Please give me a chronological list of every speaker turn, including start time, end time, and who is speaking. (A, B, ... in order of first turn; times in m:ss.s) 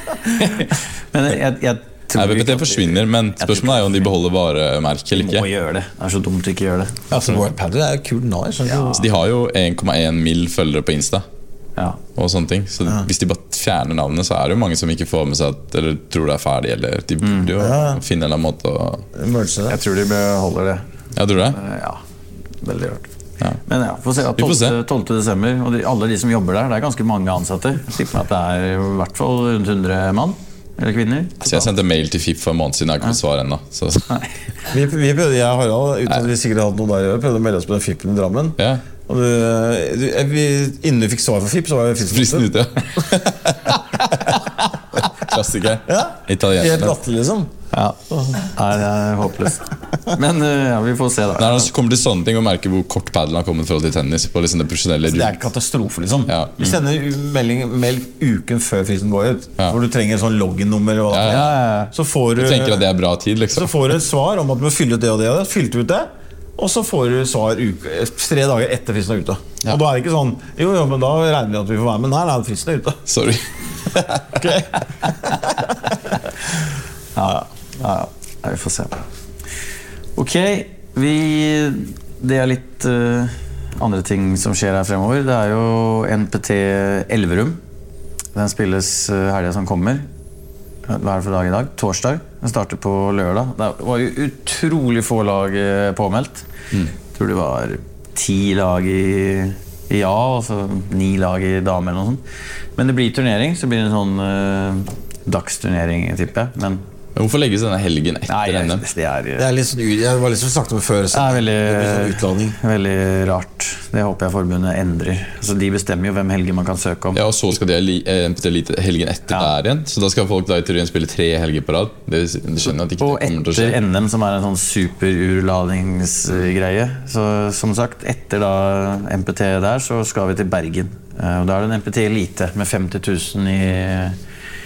0:00.2-0:04.0 A
0:02.2-0:05.5 B
0:05.1-0:07.1 A
0:07.1-0:09.1 C
0:08.9-0:11.2 B
0:12.2-0:19.0 B
0:17.2-0:17.5 A
0:17.6-0:18.0 C
0:19.1-0:19.8 C
0:19.7-0:20.8 A
0:21.2-0:21.6 B
0:21.5-0:22.0 A
0:22.6-0:23.1 A
0:23.6-0:31.7 A
0:24.4-0:24.8 B
0:31.4-0:34.2 B
0:34.7-0:42.5 C
0:42.1-0:43.6 B
0:45.0-0:47.0 B
0:45.8-0:47.5 C
0:47.7-0:51.7 A
0:51.3-0:55.3 B
0:55.1-1:02.8 C
0:56.3-0:56.8 B
1:01.1-1:01.5 B
1:01.3-1:01.9 A
1:02.4-1:03.8 B
1:03.5-1:13.0 C
1:13.1-1:14.0 B
1:14.3-1:16.1 C
1:17.2-1:19.0 A
1:20.2-1:27.6 A
1:28.3-1:30.1 A
1:30.8-1:36.5 A
1:37.1-1:42.2 A
1:42.8-1:46.8 A
1:47.2-1:48.8 B
1:48.3-1:49.5 A
1:49.4-1:52.6 C
1:51.1-1:57.2 A
1:57.1-2:03.8 B
2:03.0-2:14.2 A